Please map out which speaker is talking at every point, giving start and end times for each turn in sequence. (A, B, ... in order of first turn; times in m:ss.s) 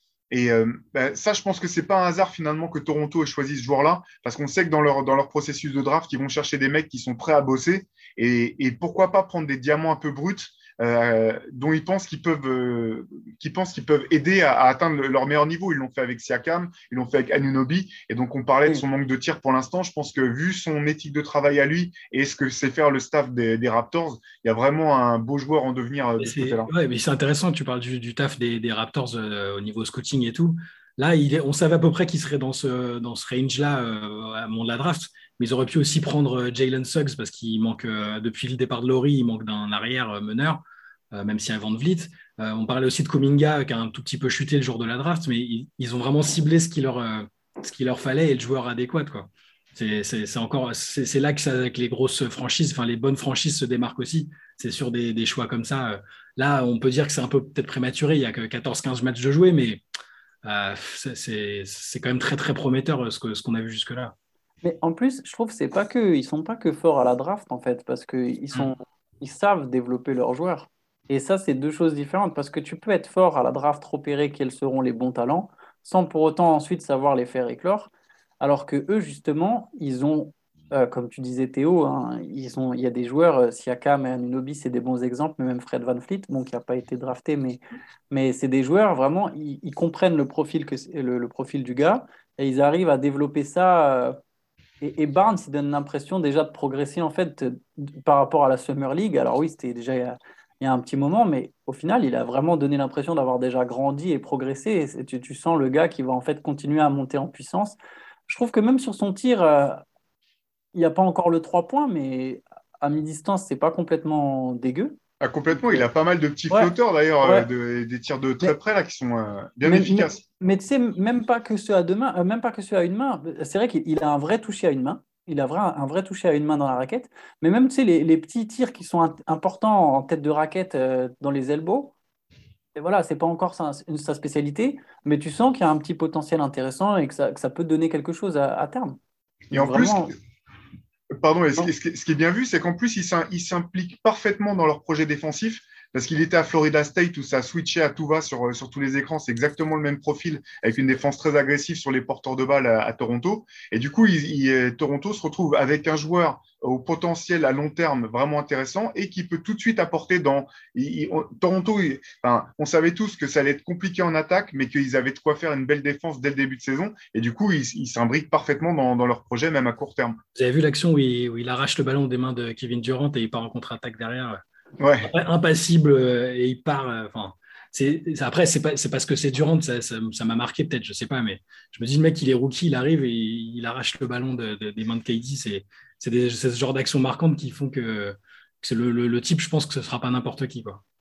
0:00.3-0:26.7 A
0:26.2-0:40.6 B
0:41.1-0:59.8 B
1:00.4-1:04.1 B
1:04.6-1:27.6 C
1:28.1-1:34.2 C
1:34.8-1:47.8 C
1:48.3-1:49.8 C
1:50.7-1:55.0 C
1:55.2-2:00.2 A
1:55.5-1:55.8 C
1:57.2-1:57.5 C
1:59.6-2:11.9 C
2:12.8-2:19.0 C
2:19.5-2:20.1 A
2:19.5-2:20.1 C
2:21.2-2:50.2 A
2:50.3-2:54.4 B
2:54.8-2:55.1 A
2:55.0-3:10.8 B